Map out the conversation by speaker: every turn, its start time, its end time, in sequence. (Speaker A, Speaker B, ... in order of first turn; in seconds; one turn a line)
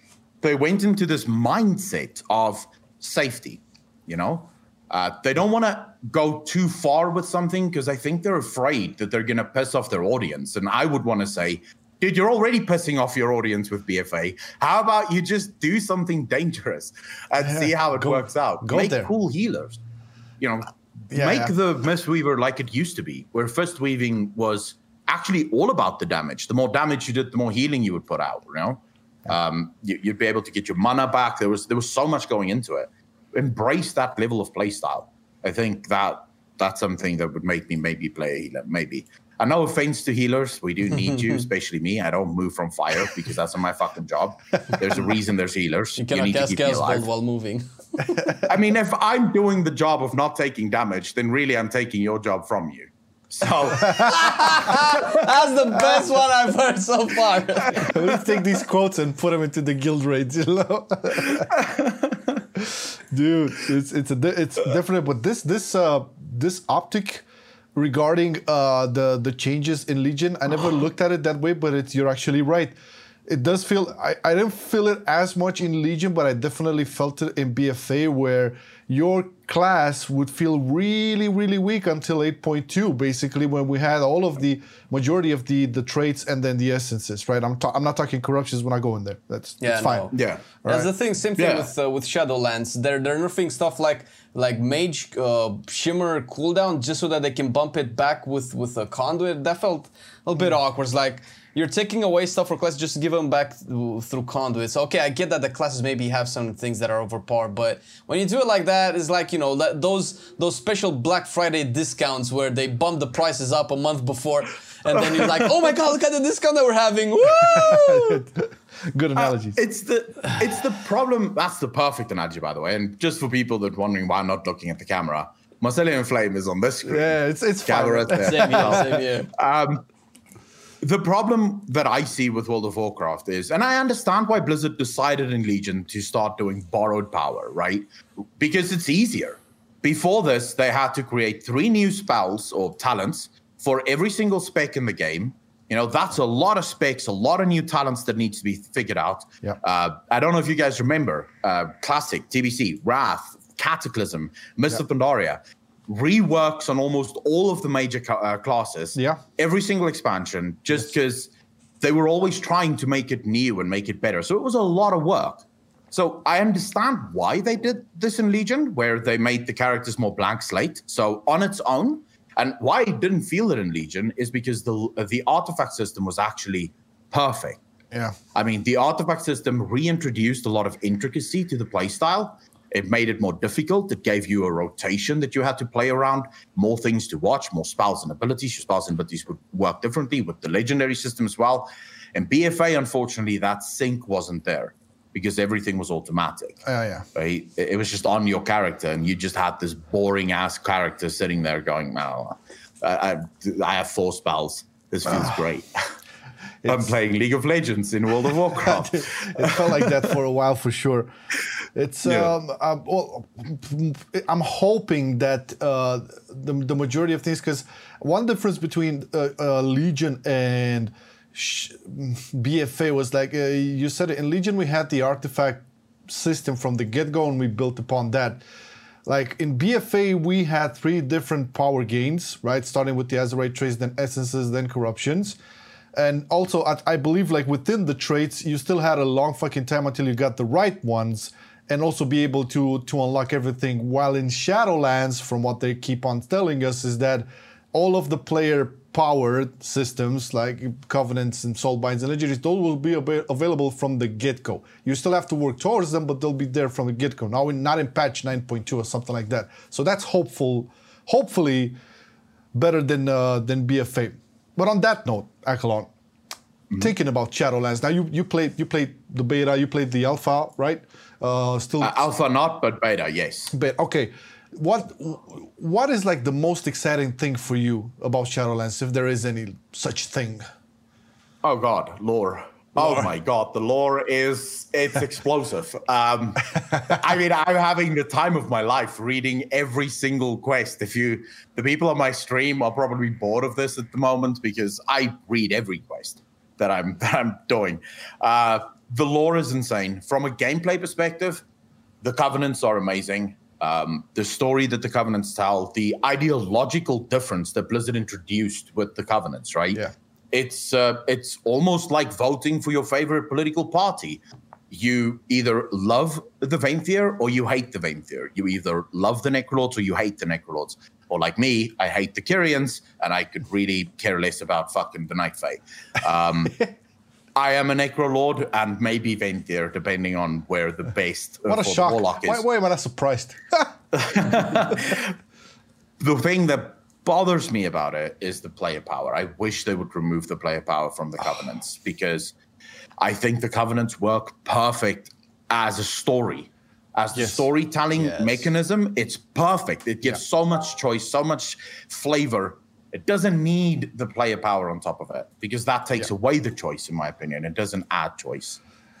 Speaker A: 0.4-19.8
Speaker B: 17.4-19.1
Speaker A: 20.4-47.1
Speaker B: 21.1-21.5
Speaker C: 46.0-48.4
Speaker A: 48.4-54.9
Speaker C: 54.0-58.0
Speaker B: 57.7-61.5
Speaker A: 61.5-62.0
Speaker B: 62.5-67.2
Speaker B: 67.8-72.8
Speaker B: 73.3-90.9
Speaker C: 89.6-90.1
Speaker A: 90.1-90.5
Speaker C: 90.6-118.2
Speaker A: 91.4-91.7
Speaker B: 117.5-119.6
Speaker A: 119.2-129.8
Speaker B: 126.8-128.8
Speaker C: 128.2-129.3
Speaker A: 130.8-137.8
Speaker A: 138.4-177.6
Speaker B: 158.9-159.2
Speaker A: 178.3-196.6
Speaker B: 196.6-197.1
Speaker A: 197.1-205.9
Speaker A: 206.6-210.0
Speaker B: 208.6-211.1
Speaker B: 211.7-228.4
Speaker A: 212.0-212.3
Speaker B: 229.1-235.4
Speaker B: 235.9-261.7
Speaker B: 262.5-265.9
Speaker B: 266.7-272.1
Speaker A: 271.8-273.5
Speaker B: 273.5-280.4
Speaker A: 281.4-301.4
Speaker B: 282.8-283.1
Speaker A: 302.0-326.6
Speaker A: 327.3-332.4
Speaker B: 331.5-333.7
Speaker A: 333.9-335.1
Speaker A: 336.0-342.3
Speaker A: 343.0-358.6
Speaker B: 347.1-347.5
Speaker C: 348.0-348.5